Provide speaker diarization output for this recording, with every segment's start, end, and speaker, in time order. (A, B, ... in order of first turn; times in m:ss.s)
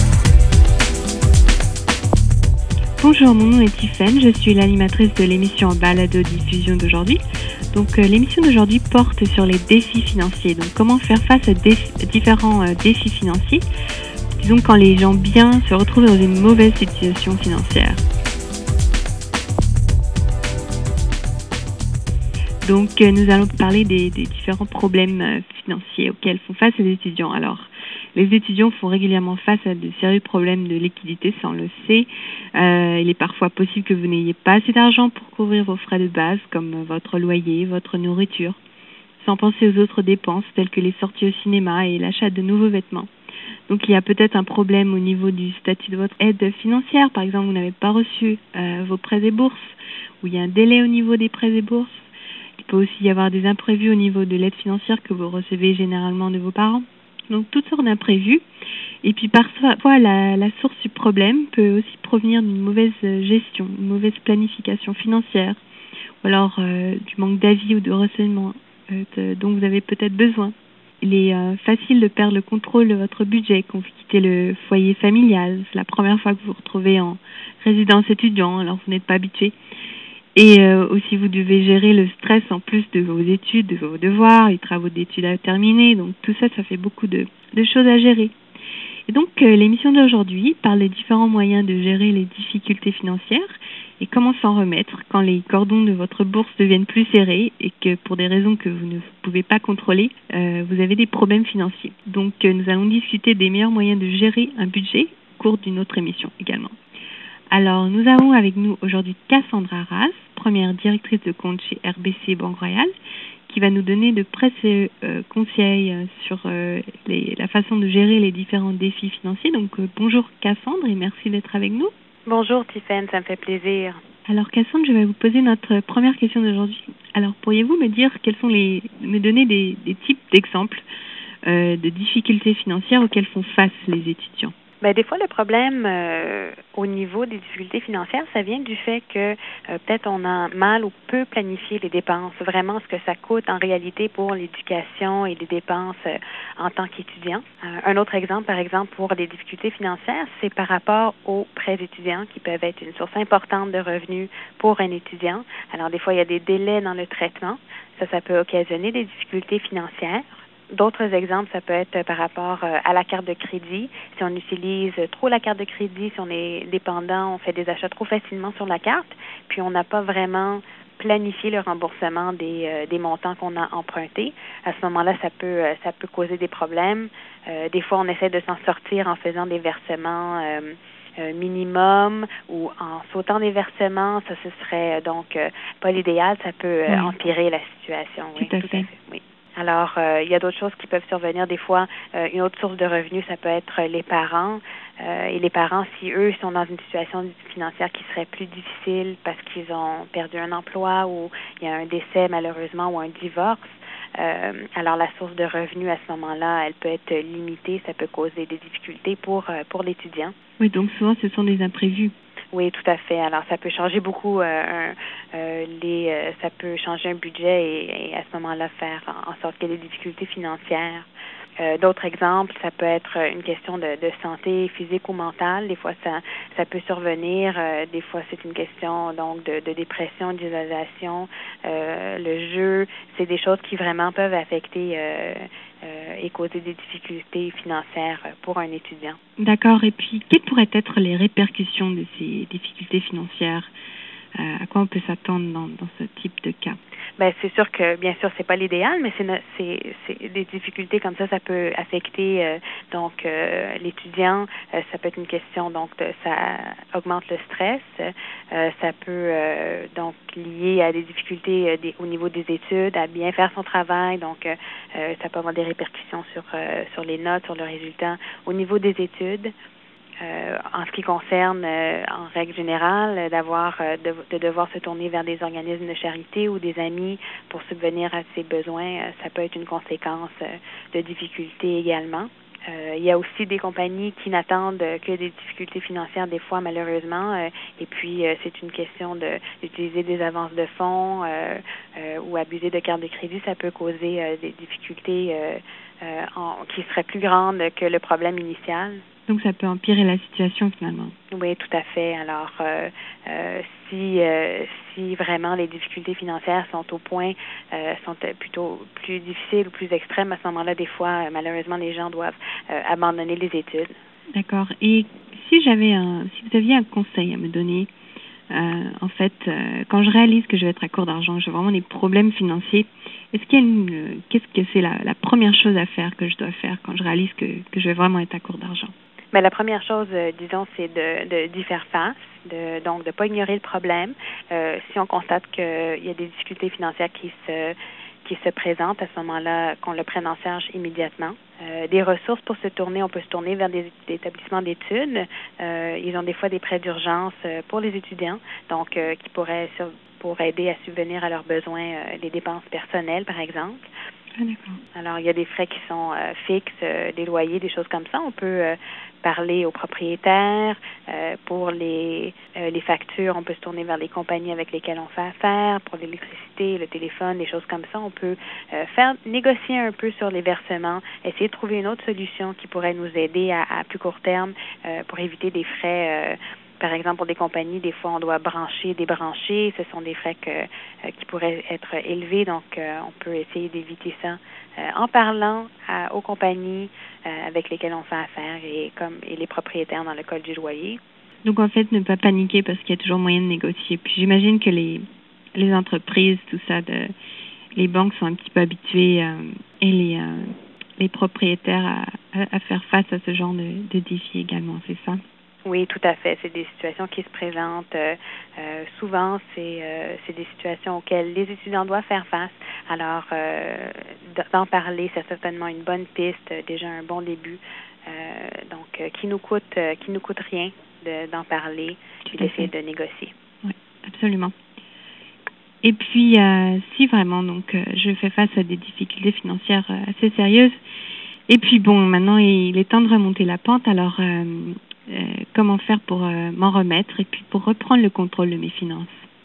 0:03.0-0:07.2 A
0:07.7-0:13.6 A
0:14.4-0:18.0 A
0:22.6-0:38.6 A
0:39.2-0:43.1 A
0:43.7-0:58.4 A
0:59.0-1:05.6 A
1:06.2-1:19.6 A
1:20.4-1:28.3 A
1:29.1-1:46.8 A
1:47.5-1:52.9 A
1:53.5-2:01.9 A
2:02.3-2:04.0 B
2:04.3-2:10.8 A
2:11.4-2:14.5 A
2:14.8-3:30.3 B
3:06.9-3:07.1 A
3:08.4-3:08.9 A
3:30.6-3:32.1 A
3:32.5-3:41.1 B
3:41.6-3:59.2 B
3:59.4-4:03.7 A
4:04.4-4:06.8 A
4:07.2-4:29.5 B
4:30.2-4:59.0 B
4:59.3-5:01.1 A
5:01.3-5:13.9 B
5:14.3-5:17.9 A
5:18.5-5:28.9 A
5:29.3-5:53.9 B
5:54.4-5:54.8 A
5:54.9-6:31.0 B
6:31.4-6:37.1 A
6:37.8-6:45.2 A
6:45.6-7:03.3 B
7:02.3-7:02.7 A
7:03.6-7:04.5 A
7:05.8-7:10.8 A
7:11.5-7:19.2 A